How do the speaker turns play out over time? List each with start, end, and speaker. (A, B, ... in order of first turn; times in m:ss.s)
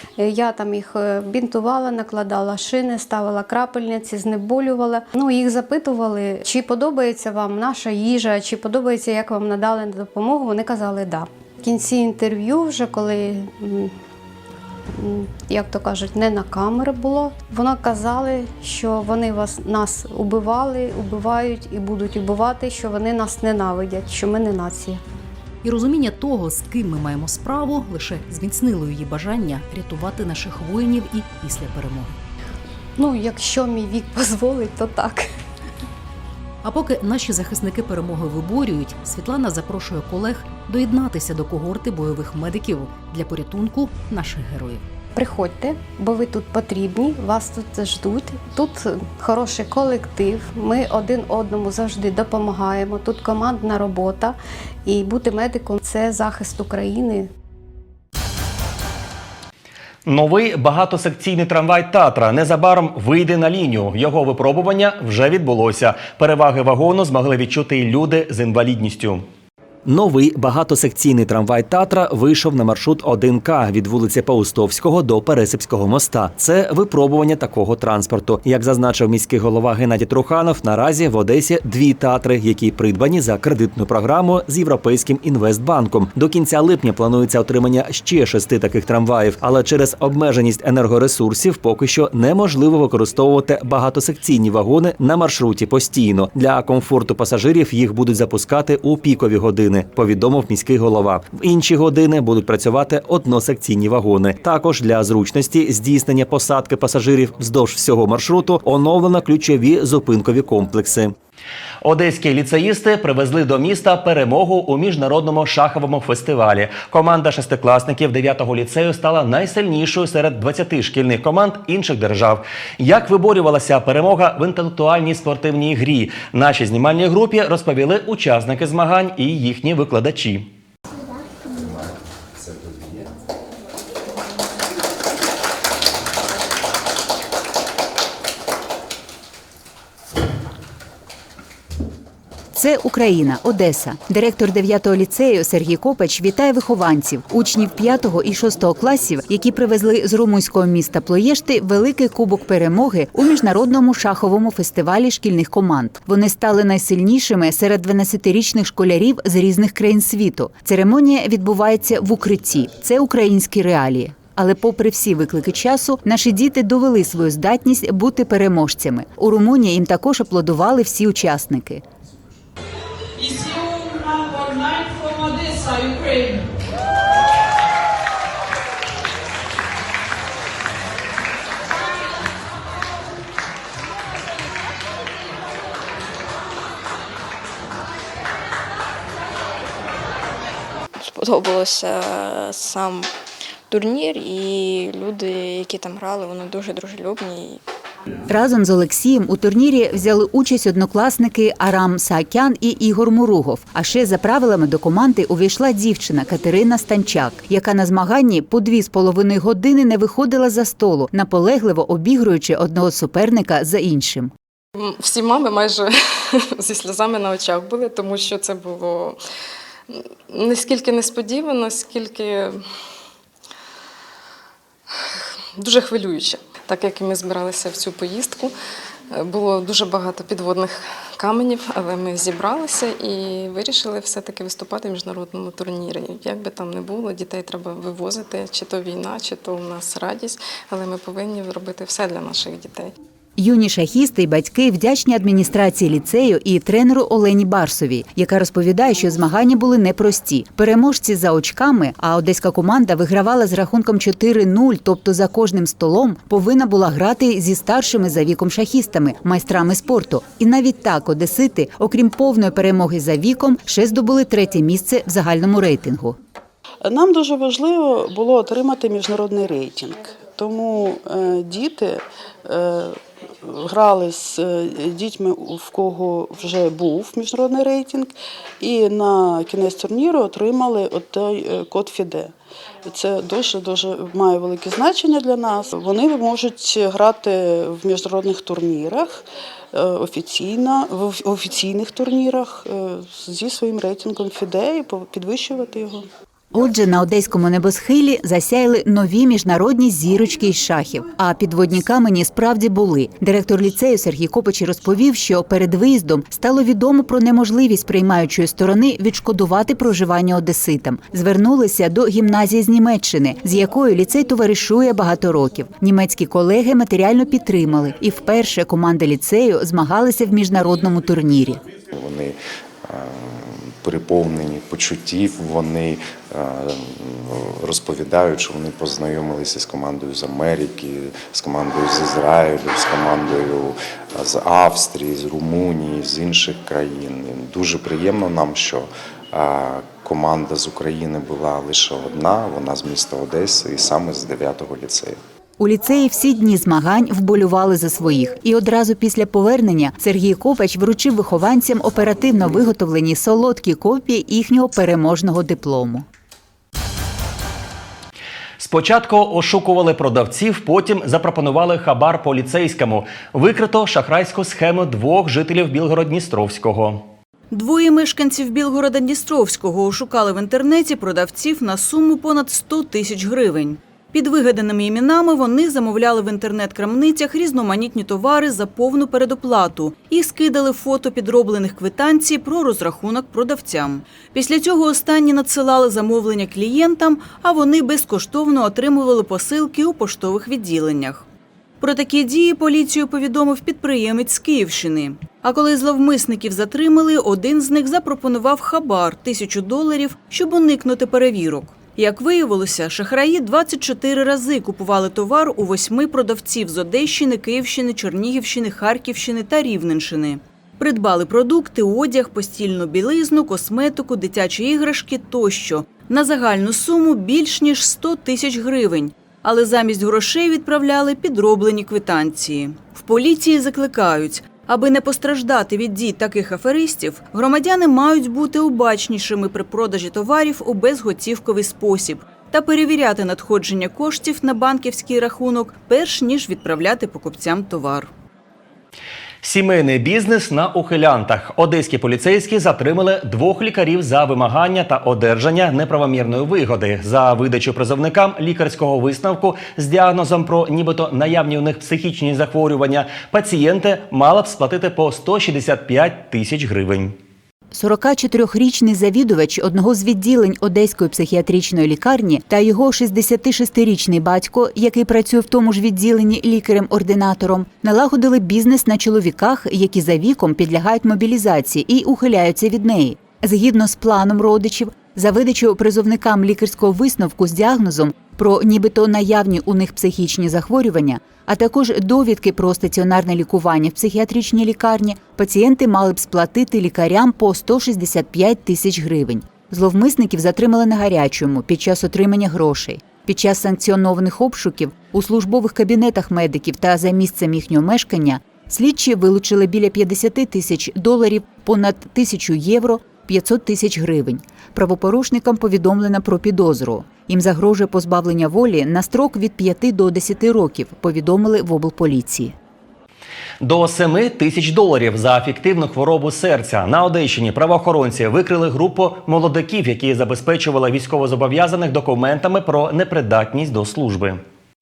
0:00.2-0:13.9 A
0:14.9-0:25.0 A
0:25.6-0:32.1 B
0:33.0-0:35.2 A
0:36.6-0:44.9 B
0:45.2-0:57.3 A
1:00.1-1:09.2 C
1:09.9-1:51.1 C
1:51.8-2:10.5 C
2:22.6-2:51.8 D
3:11.0-3:13.1 E
3:13.7-3:17.6 E
3:18.3-3:34.3 D
3:34.8-3:39.2 F
3:39.9-3:42.6 F
3:45.6-3:48.5 F
3:49.1-4:02.9 F
4:03.4-4:26.2 D
4:26.8-4:42.3 G
4:42.8-4:56.1 G
4:56.5-5:21.6 D
5:21.9-5:45.2 H
5:45.6-5:56.1 D
5:58.6-6:07.1 C
6:07.5-6:31.2 I
6:31.8-7:18.1 I
7:19.4-7:37.2 C
7:37.7-8:32.6 D
8:33.6-8:44.4 C